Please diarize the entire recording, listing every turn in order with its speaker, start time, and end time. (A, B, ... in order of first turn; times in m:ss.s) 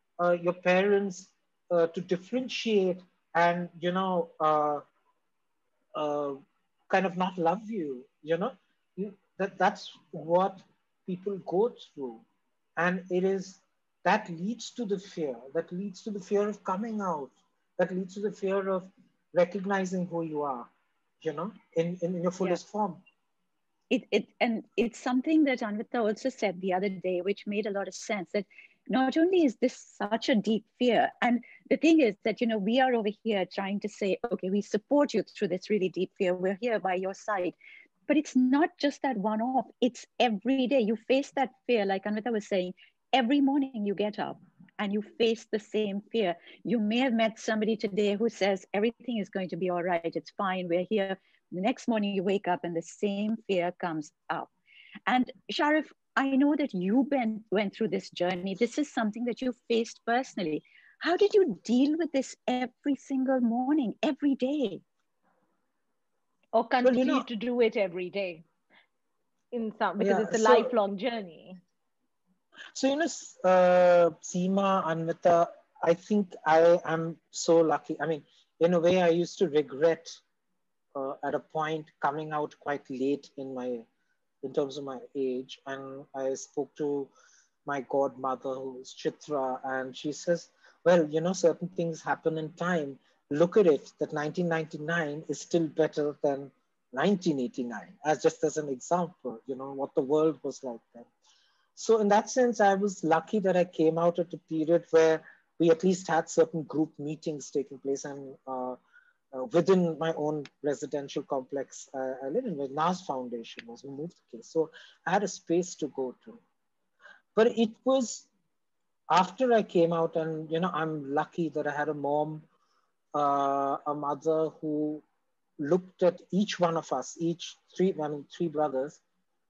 0:00.2-0:04.8 A
0:06.0-0:06.4 A
0:06.9-0:12.2 A
0:12.8-0:20.7 A
0:21.2-0:23.0 A
0:23.9-0:37.6 B
0:38.1-0:54.5 B
0:55.1-1:04.8 B
1:06.6-1:08.4 C
1:06.8-1:07.3 A
1:09.5-1:11.6 C
1:10.0-1:10.7 A
1:12.7-1:20.2 A
1:21.0-1:23.9 A
1:24.4-1:27.1 A
1:27.7-1:41.1 A
1:41.8-1:48.8 A
1:49.3-1:56.4 A
1:57.4-1:58.3 A
1:59.1-2:02.5 A
2:03.2-2:05.0 A
2:05.6-2:09.0 A